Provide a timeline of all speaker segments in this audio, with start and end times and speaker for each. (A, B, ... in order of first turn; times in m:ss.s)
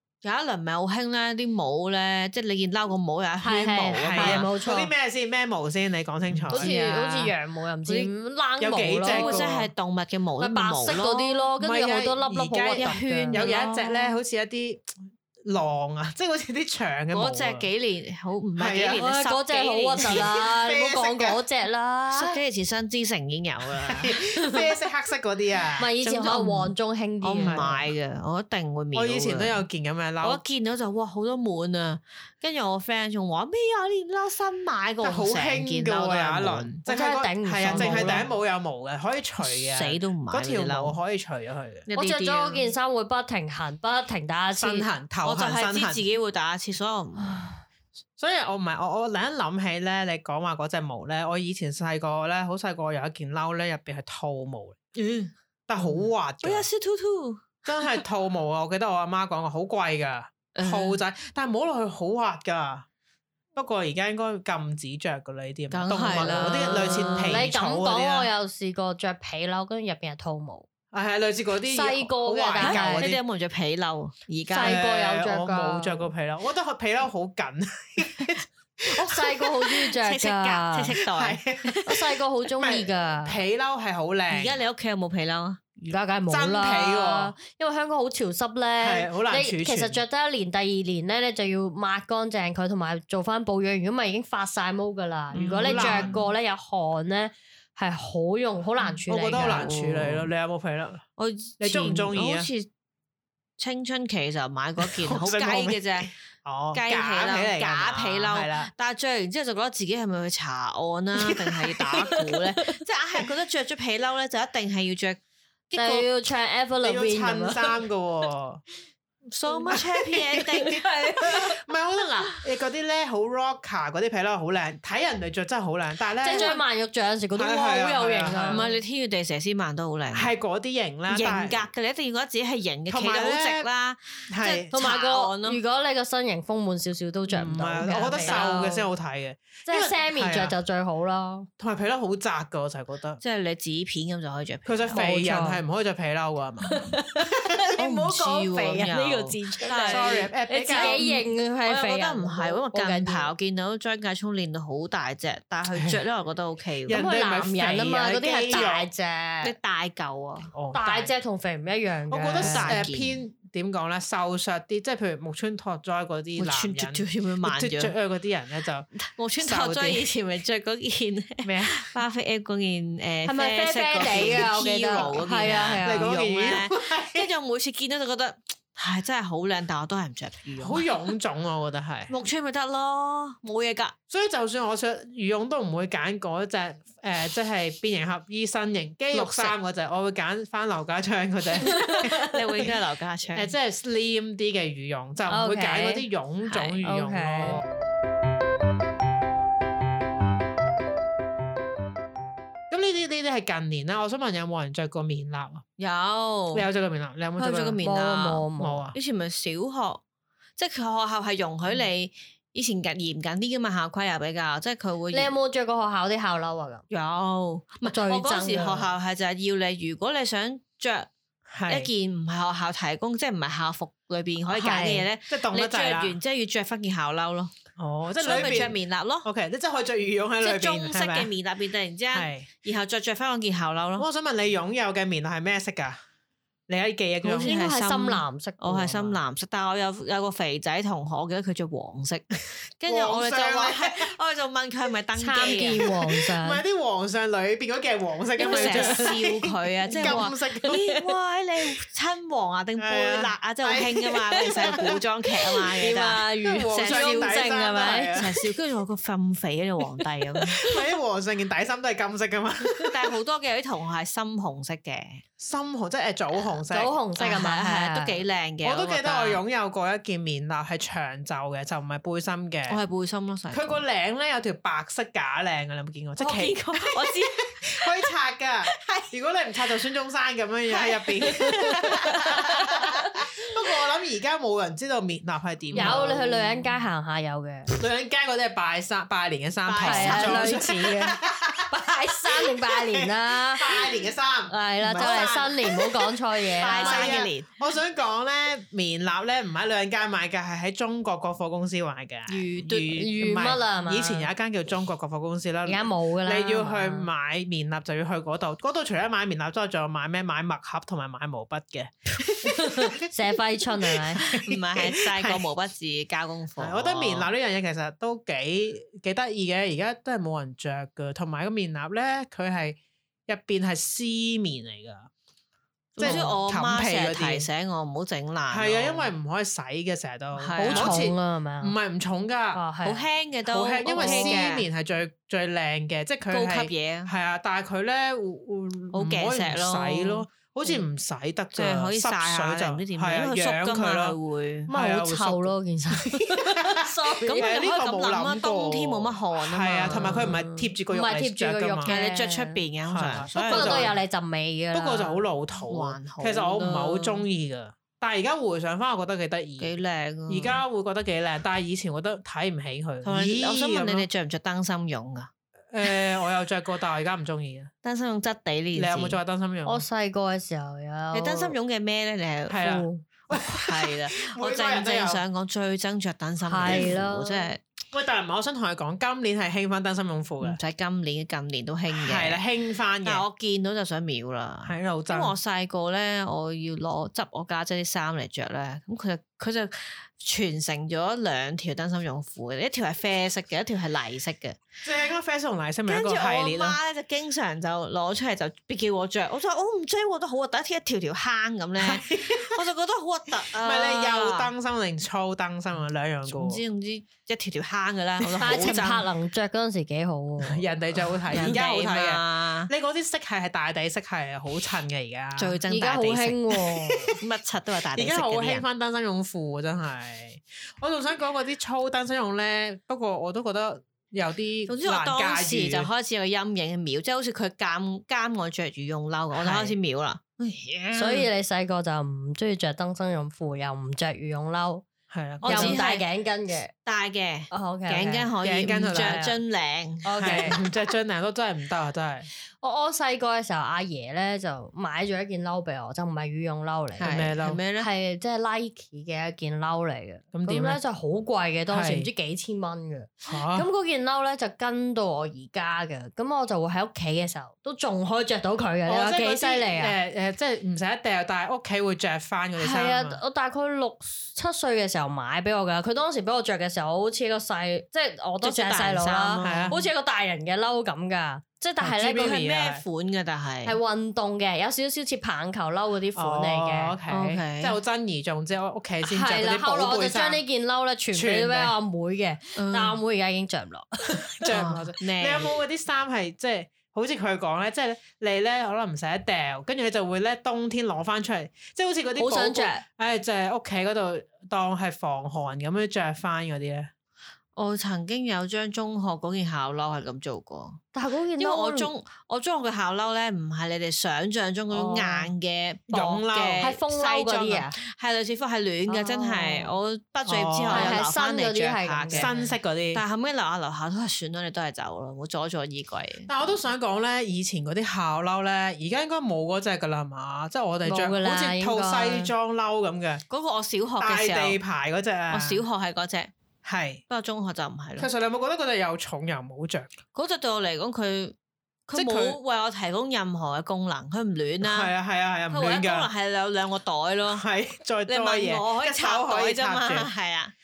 0:00.2-0:04.5 A
0:03.4-0:04.9 B
0:04.0-0:07.3 C
0:06.3-0:06.7 A
0:06.5-0:09.5 B
0:08.6-0:09.7 C
0:09.0-0:11.4 A
0:10.4-0:13.4 B
0:11.6-0:17.7 C
0:12.8-0:14.2 A
0:17.1-0:20.4 A
0:18.6-0:19.0 C
0:19.0-0:22.4 B
0:20.0-0:21.4 C
0:22.1-0:24.2 A
0:23.8-0:25.9 C
0:25.8-0:27.8 B
0:26.0-0:29.6 A
0:27.4-0:27.8 C
0:28.9-0:30.4 C
0:30.2-0:36.7 A
0:35.0-0:41.9 C
0:36.8-0:38.2 B
0:37.7-0:38.3 A
0:39.4-0:41.0 A
0:41.9-0:42.7 A
0:41.9-0:44.9 B
0:44.5-0:46.0 C
0:45.2-0:47.4 A
0:47.2-0:47.6 B
0:48.2-0:54.8 C
0:54.9-0:57.9 A
0:55.7-0:56.7 C
0:57.6-1:02.8 C
1:00.5-1:01.0 A
1:03.5-1:08.3 C
1:05.7-1:07.5 A
1:06.2-1:10.7 B
1:10.9-1:13.2 C
1:11.7-1:13.1 B
1:12.6-1:14.8 A
1:14.5-1:16.1 B
1:14.6-1:19.6 C
1:18.9-1:21.0 B
1:20.0-1:21.9 A
1:21.0-1:21.8 C
1:21.8-1:23.4 B
1:22.6-1:24.6 C
1:24.3-1:25.6 A
1:25.8-1:39.7 B
1:26.3-1:27.3 C
1:28.8-1:30.0 C
1:35.3-1:36.2 A
1:35.3-1:36.2 C
1:39.1-1:41.0 C
1:39.4-1:40.3 A
1:41.2-1:42.7 A
1:41.6-1:42.5 C
1:43.6-1:46.1 A
1:44.8-1:48.7 C
1:46.7-1:55.2 A
1:51.1-1:52.2 C
1:55.7-1:56.1 A
1:55.7-1:57.8 B
1:56.8-1:58.6 C
1:59.3-2:01.4 A
1:59.6-2:06.6 C
2:00.7-2:01.5 B
2:06.2-2:08.7 B
2:06.3-2:06.6 A
2:07.3-2:08.7 C
2:08.5-2:10.3 A
2:10.1-2:11.7 C
2:11.1-2:15.6 A
2:12.9-2:13.7 C
2:14.3-2:14.7 C
2:14.7-2:18.9 B
2:17.3-2:20.5 C
2:17.8-2:18.5 A
2:19.6-2:21.5 B
2:21.6-2:23.2 C
2:23.2-2:25.0 A
2:24.6-2:26.8 C
2:24.9-2:25.6 B
2:26.6-2:33.3 B
2:27.8-2:37.0 A
2:29.8-2:31.1 C
2:35.7-2:36.0 C
2:36.8-2:38.9 C
2:36.9-2:39.5 B
2:39.4-2:40.5 A
2:40.5-2:41.1 C
2:40.7-2:42.9 B
2:42.1-2:48.9 C
2:42.4-2:43.2 A
2:46.4-2:47.9 A
2:49.0-3:00.9 A
2:49.4-2:50.1 C
2:51.4-2:51.9 C
2:53.2-2:56.1 B
2:54.1-2:57.3 C
3:00.6-3:02.1 C
3:02.1-3:03.9 A
3:04.1-3:12.7 C
3:09.1-3:09.5 A
3:11.6-3:13.5 A
3:11.6-3:12.4 B
3:13.3-3:17.6 C
3:15.3-3:16.0 B
3:16.8-3:17.6 B
3:22.7-3:25.6 C
3:25.8-3:26.6 A
3:26.5-3:27.8 C
3:27.4-3:30.0 A
3:27.8-3:28.8 B
3:28.6-3:29.0 C
3:30.6-3:35.3 A
3:35.1-3:36.8 B
3:36.9-3:41.1 A
3:37.8-3:38.9 B
3:41.5-3:41.9 C
3:41.7-3:47.5 A
3:44.5-3:45.0 B
3:45.3-3:46.2 C
3:47.8-3:51.3 C
3:48.2-3:49.3 A
3:50.4-3:54.0 A
3:52.1-3:52.5 C
3:54.0-3:56.0 C
3:56.7-3:57.5 C
3:57.2-4:02.2 A
3:57.4-3:59.2 B
4:02.8-4:06.0 A
4:02.8-4:04.1 C
4:05.2-4:06.6 B
4:05.5-4:10.8 C
4:08.4-4:09.2 B
4:08.4-4:17.5 A
4:09.9-4:10.8 B
4:12.8-4:15.0 C
4:15.7-4:18.5 C
4:15.8-4:18.2 B
4:18.1-4:20.6 A
4:20.5-4:23.2 C
4:22.7-4:25.2 A
4:25.4-4:27.0 C
4:26.7-4:28.2 B
4:27.2-4:29.4 A
4:28.6-4:32.8 C
4:32.7-4:33.8 A
4:33.5-4:46.4 C
4:36.2-4:38.1 A
4:38.7-4:39.0 A
4:40.8-4:43.1 A
4:41.3-4:41.9 B
4:45.7-4:46.3 A
4:45.7-4:47.7 B
4:47.7-4:51.7 C
4:49.6-4:50.7 A
4:49.8-4:53.8 B
4:52.3-5:13.1 C
4:54.5-4:57.2 B
4:54.9-4:55.4 A
4:56.6-4:57.5 A
5:02.3-5:03.1 A
5:03.0-5:04.3 B
5:05.6-5:07.1 B
5:12.4-5:14.2 B
5:13.8-5:15.5 C
5:14.2-5:17.3 A
5:16.6-5:25.1 C
5:26.0-5:27.5 C
5:26.0-5:29.1 A
5:26.0-5:26.3 B
5:28.5-5:32.6 C
5:30.4-5:31.1 A
5:30.6-5:31.8 B
5:32.5-5:33.0 B
5:32.8-5:34.7 A
5:33.4-5:51.9 C
5:33.9-5:34.4 B
5:36.3-5:37.1 A
5:38.9-5:40.2 A
5:41.5-5:44.7 A
5:44.7-5:47.5 B
5:47.2-5:50.4 A
5:49.9-5:52.6 B
5:51.8-5:53.9 A
5:52.9-5:53.9 C
5:53.3-5:55.2 B
5:54.7-5:59.7 C
5:55.7-5:57.2 A
5:59.6-6:00.6 A
6:00.3-6:04.1 C
6:03.0-6:05.3 A
6:05.7-6:07.7 C
6:07.8-6:09.2 A
6:08.7-6:09.8 C
6:09.6-6:11.6 B
6:11.1-6:12.6 A
6:12.5-6:15.2 C
6:12.6-6:13.0 B
6:13.3-6:17.6 A
6:16.4-6:17.5 B
6:16.6-6:17.0 C
6:17.9-6:20.6 C
6:20.4-6:22.4 A
6:21.9-6:23.2 C
6:23.0-6:34.6 A
6:24.6-6:25.3 C
6:34.8-6:36.8 C
6:35.9-6:44.5 A
6:41.8-6:42.6 C
6:43.6-6:46.6 C
6:46.2-6:49.1 A
6:48.2-6:48.9 C
6:48.4-6:50.6 B
6:50.4-6:55.6 C
6:51.3-6:52.7 A
6:55.4-6:56.6 A
6:55.7-6:57.2 B
6:56.9-6:57.2 C
6:57.2-6:58.6 A
6:57.9-7:05.9 C
7:04.7-7:11.3 A
7:09.3-7:09.8 C
7:10.9-7:14.8 B
7:15.1-7:15.8 C
7:15.4-7:16.0 A
7:15.4-7:16.7 B
7:16.8-7:20.6 A
7:17.5-7:18.3 B
7:18.4-7:19.4 C
7:20.0-7:20.6 B
7:20.2-7:22.3 C
7:22.6-7:27.1 B
7:27.0-7:27.9 A
7:27.0-7:27.6 C
7:27.8-7:39.9 B
7:30.3-7:30.8 C
7:31.7-7:32.1 C
7:33.3-7:33.7 C
7:38.8-7:43.2 C
7:42.6-7:52.4 B
7:48.4-7:49.9 A
7:49.4-7:49.8 C
7:51.8-7:52.8 C
7:52.1-7:53.8 A
7:53.6-7:57.0 B
7:56.1-8:00.4 C
7:57.1-7:57.8 A
7:59.0-8:04.6 B
8:01.1-8:01.7 C
8:02.6-8:03.0 A
8:04.3-8:16.9 C
8:04.5-8:05.5 A
8:12.2-8:12.8 B
8:17.6-8:20.8 A
8:20.9-8:21.9 B
8:21.4-8:36.3 A
8:24.7-8:25.3 C
8:25.9-8:26.7 C
8:26.6-8:27.8 B
8:28.9-8:29.7 B
8:30.2-8:31.0 C
8:30.7-8:32.4 B
8:32.1-8:33.0 C
8:36.3-8:43.2 C
8:40.8-8:42.3 B
8:43.3-8:44.6 A
8:44.0-8:45.6 C
8:45.3-8:46.3 A
8:46.6-8:47.0 C
8:47.1-8:48.1 A
8:48.0-8:49.9 C
8:50.1-8:51.3 A
8:51.9-8:54.9 A
8:51.9-8:52.4 C
8:54.6-8:56.1 C
8:55.5-8:57.4 A
8:57.3-9:00.1 C
8:58.1-9:00.5 A